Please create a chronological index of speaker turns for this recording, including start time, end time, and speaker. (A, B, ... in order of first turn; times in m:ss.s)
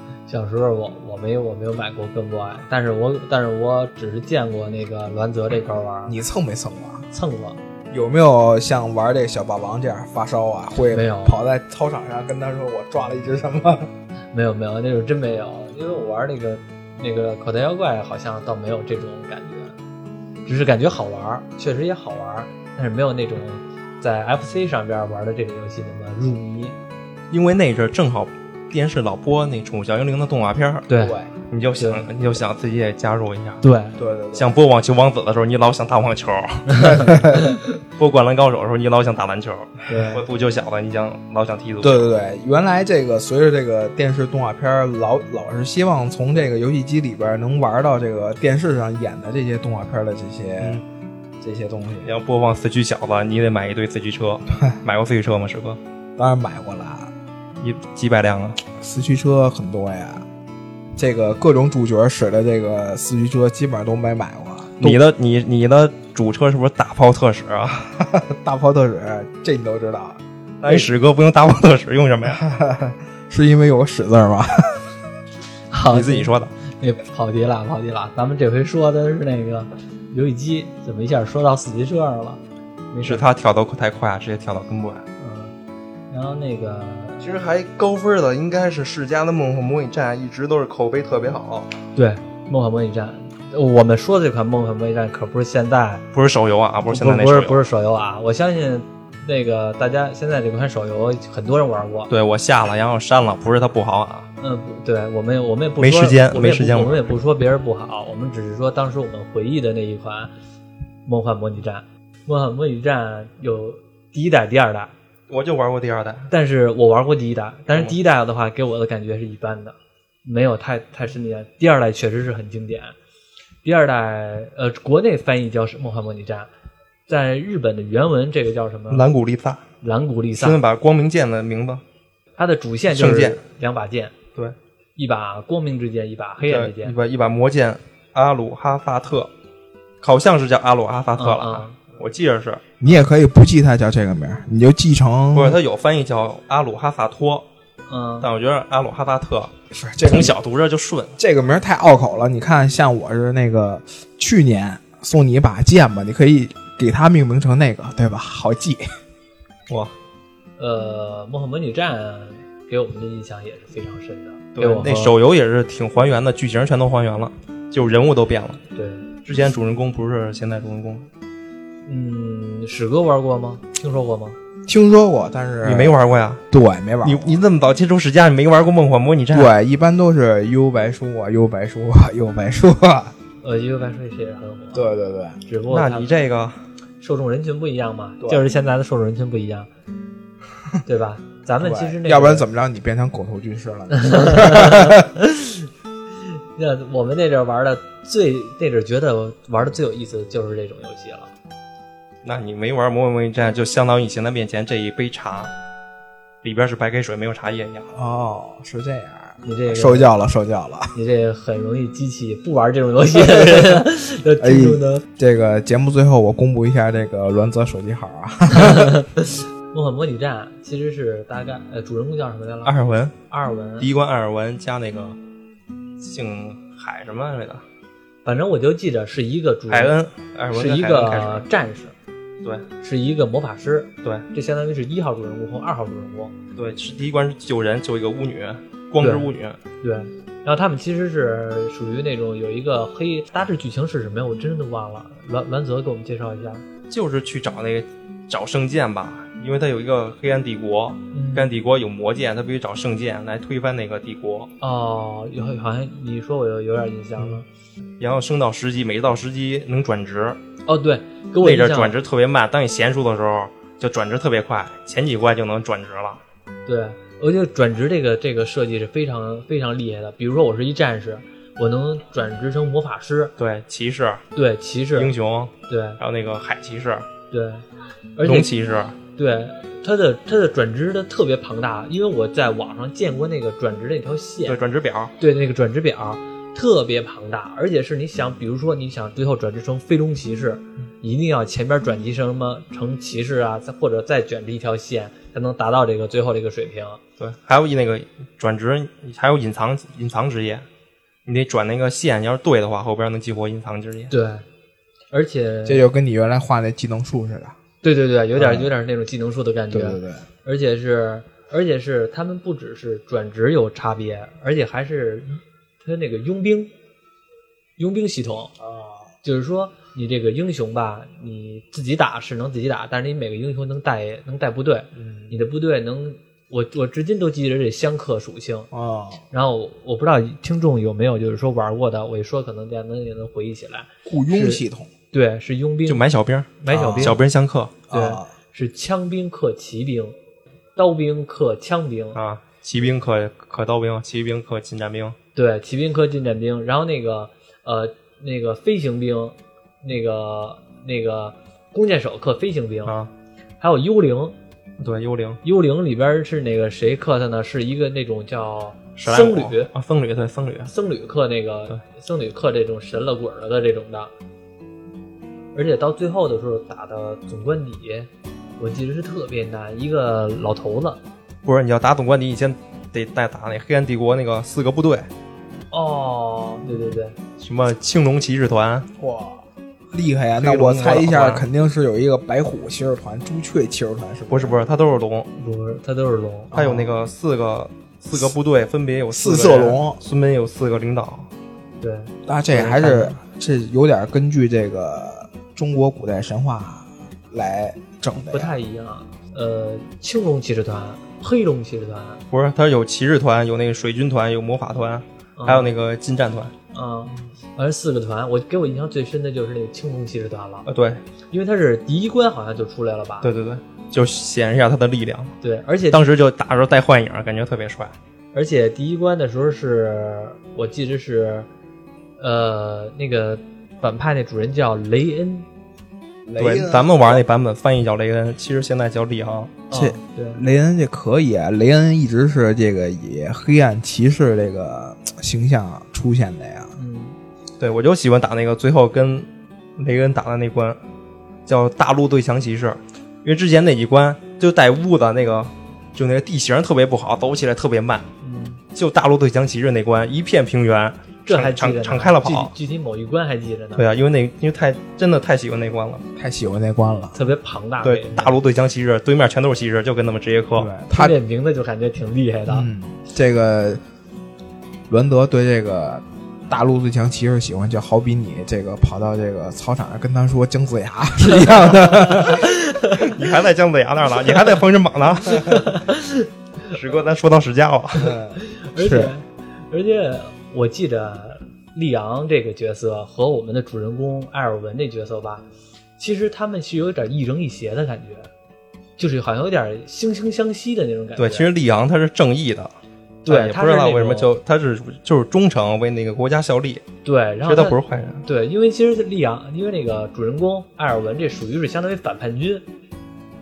0:00.3-0:06.2 A
0:06.1-0:07.1 B
0:07.1-0:07.6 A
0:07.9-0:13.9 B
0:10.9-0:11.4 A
0:14.3-0:19.8 A
0:20.4-0:26.7 A
0:27.3-0:30.9 C
0:30.9-0:31.2 A
0:31.0-0:31.3 B
0:31.5-0:33.6 C
0:31.8-0:32.1 A
0:33.6-0:34.0 A
0:34.0-0:34.6 B
0:34.3-0:42.1 C
0:36.8-0:37.5 B
0:39.9-0:40.2 A
0:41.8-0:50.8 B
0:51.4-0:52.1 B
0:52.0-0:55.8 C
0:56.2-0:57.1 B
0:57.6-0:58.6 C
0:58.7-1:00.2 B
1:01.0-1:05.0 B
1:04.8-1:08.0 C
1:08.0-1:10.9 B
1:10.6-1:12.4 C
1:12.3-1:14.8 B
1:15.7-1:22.4 A
1:15.9-1:16.5 C
1:22.9-1:23.2 A
1:23.0-1:25.0 C
1:25.2-1:25.5 A
1:26.1-1:27.2 A
1:27.2-1:31.7 C
1:31.9-1:36.0 A
1:36.1-1:37.7 C
1:36.9-1:42.1 A
1:42.1-1:44.3 C
1:44.4-1:50.3 A
1:45.8-1:47.2 C
1:51.0-1:54.9 A
1:55.3-1:56.3 C
1:56.3-2:02.9 A
2:03.6-2:06.5 A
2:07.1-2:09.1 A
2:08.9-2:09.6 C
2:09.8-2:10.6 A
2:10.4-2:11.8 C
2:12.4-2:14.2 A
2:12.9-2:13.4 C
2:15.0-2:17.0 A
2:16.4-2:19.3 C
2:20.0-2:22.6 C
2:21.2-2:21.8 A
2:22.8-2:25.6 B
2:25.3-2:27.4 C
2:27.9-2:28.3 A
2:28.2-2:31.2 C
2:29.7-2:30.4 B
2:31.2-2:38.8 B
2:40.6-2:45.1 A
2:44.5-2:48.6 C
2:48.7-2:49.1 A
2:49.2-2:51.1 C
2:51.8-2:54.4 A
2:54.6-2:56.0 B
2:55.6-2:56.4 C
2:56.5-2:57.4 B
2:57.0-2:59.5 C
2:59.3-3:03.1 B
3:03.4-3:04.9 A
3:04.7-3:05.4 B
3:05.4-3:06.1 A
3:05.7-3:06.6 C
3:07.0-3:09.7 A
3:08.2-3:08.5 B
3:10.8-3:12.5 A
3:11.6-3:15.1 B
3:13.9-3:15.7 A
3:16.5-3:21.3 A
3:22.2-3:25.5 C
3:26.4-3:27.9 C
3:27.9-3:30.9 B
3:29.4-3:30.1 A
3:30.9-3:35.0 A
3:34.4-3:39.0 B
3:38.5-3:42.8 A
3:42.6-3:43.1 C
3:43.3-3:43.9 A
3:43.8-3:45.2 C
3:46.0-3:47.6 C
3:48.2-3:50.0 A
3:49.7-3:51.4 C
3:50.5-3:51.9 A
3:52.8-3:56.3 A
3:56.6-3:59.6 C
3:59.0-4:06.6 A
4:06.9-4:14.5 C
4:11.1-4:11.5 A
4:14.6-4:17.4 A
4:17.2-4:17.4 C
4:18.0-4:20.4 C
4:20.6-4:22.0 A
4:21.4-4:26.2 C
4:26.6-4:33.3 A
4:33.4-4:34.2 C
4:34.3-4:35.1 A
4:34.9-4:37.1 C
4:35.7-4:36.0 A
4:37.3-4:37.6 A
4:38.2-4:38.5 A
4:38.2-4:39.0 C
4:39.2-4:44.6 A
4:44.4-4:45.1 C
4:45.2-4:57.0 A
4:57.2-5:00.6 C
5:01.2-5:04.1 C
5:04.1-5:04.4 A
5:05.1-5:05.9 A
5:05.6-5:07.6 B
5:07.8-5:16.7 A
5:08.4-5:08.7 B
5:09.7-5:10.2 B
5:17.8-5:18.5 A
5:18.6-5:19.1 B
5:19.2-5:28.7 A
5:25.0-5:25.3 B
5:28.7-5:29.2 B
5:29.3-5:36.0 A
5:34.0-5:34.9 B
5:35.8-5:37.7 C
5:36.6-5:37.2 A
5:36.7-5:37.2 B
5:37.9-5:38.3 B
5:37.9-5:40.2 A
5:40.8-5:42.2 A
5:42.1-5:45.2 C
5:45.3-5:53.0 A
5:52.8-5:53.1 C
5:53.6-5:54.4 A
5:54.8-5:55.4 C
5:55.4-5:59.7 A
5:59.0-6:00.7 C
6:00.7-6:04.1 A
6:05.5-6:11.0 A
6:11.4-6:15.1 C
6:15.7-6:17.2 A
6:17.4-6:18.9 C
6:19.0-6:24.6 B
6:20.4-6:21.5 C
6:24.3-6:25.3 C
6:25.4-6:26.9 A
6:26.5-6:31.3 C
6:29.1-6:30.0 B
6:31.8-6:33.2 A
6:32.2-6:38.6 B
6:38.3-6:42.2 A
6:42.3-6:46.5 C
6:45.4-6:45.7 A
6:46.7-6:50.6 A
6:50.6-6:51.0 C
6:51.3-6:53.3 A
6:53.2-6:55.4 C
6:55.4-6:56.1 A
6:55.9-6:58.0 C
6:58.3-7:01.5 A
7:02.2-7:05.5 A
7:06.2-7:07.2 B
7:06.4-7:09.6 C
7:09.7-7:10.4 A
7:09.7-7:16.7 B
7:16.8-7:17.2 A
7:17.6-7:20.8 C
7:21.4-7:28.1 C
7:28.2-7:28.6 A
7:28.7-7:32.5 C
7:31.2-7:33.8 A
7:33.8-7:36.0 C
7:36.2-7:37.2 B
7:37.1-7:38.4 A
7:37.8-7:40.7 C
7:40.6-7:41.2 B
7:40.9-7:42.7 A
7:42.5-7:43.8 B
7:44.9-7:52.5 B
7:51.3-7:53.2 A
7:52.9-7:55.8 C
7:55.3-7:56.7 A
7:56.7-7:58.1 C
7:57.9-7:59.1 B
7:58.3-8:05.4 A
8:06.0-8:08.3 A
8:09.0-8:11.5 A
8:11.2-8:12.7 C
8:13.2-8:14.3 A
8:13.3-8:16.8 C
8:17.0-8:22.6 A
8:17.4-8:18.2 C